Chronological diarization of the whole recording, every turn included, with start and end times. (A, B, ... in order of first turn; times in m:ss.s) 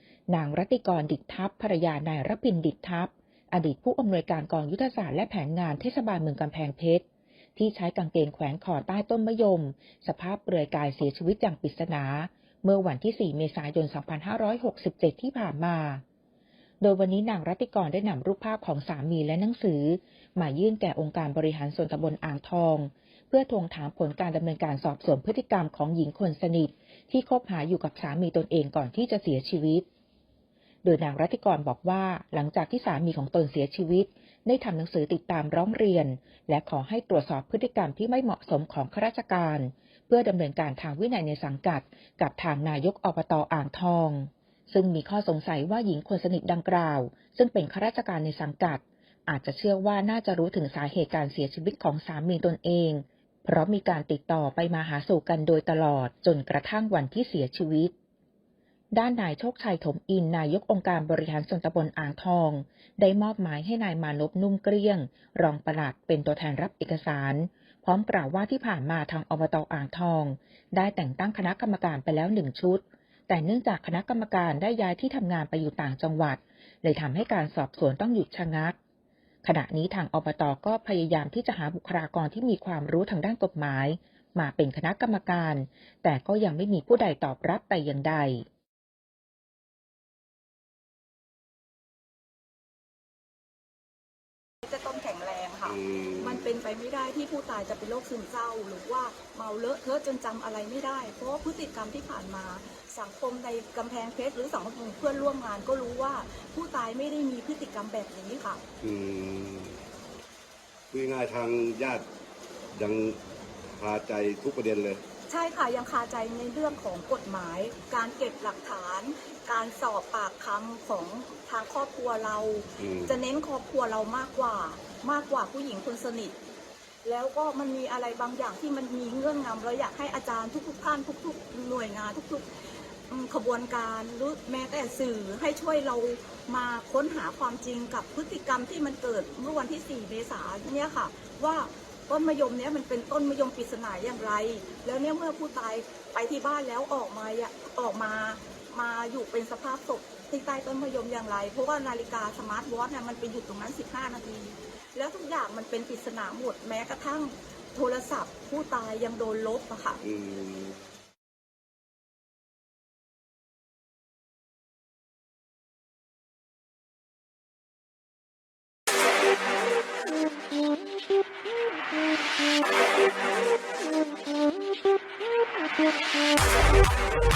0:00.3-0:07.0 A
0:07.6-0:16.0 A
0:16.8-0:29.9 A
0:30.8-0:57.9 A
0:58.9-1:18.8 A
1:19.4-1:28.5 A
1:34.6-1:48.6 B
1:35.7-1:36.4 C
1:48.8-1:49.8 C
1:50.9-1:52.1 C
1:52.7-1:53.2 C
1:53.8-1:55.0 C
1:55.3-2:06.4 B
2:02.8-2:03.1 C
2:07.0-2:12.5 B
2:13.1-2:40.0 B
2:40.0-2:40.8 C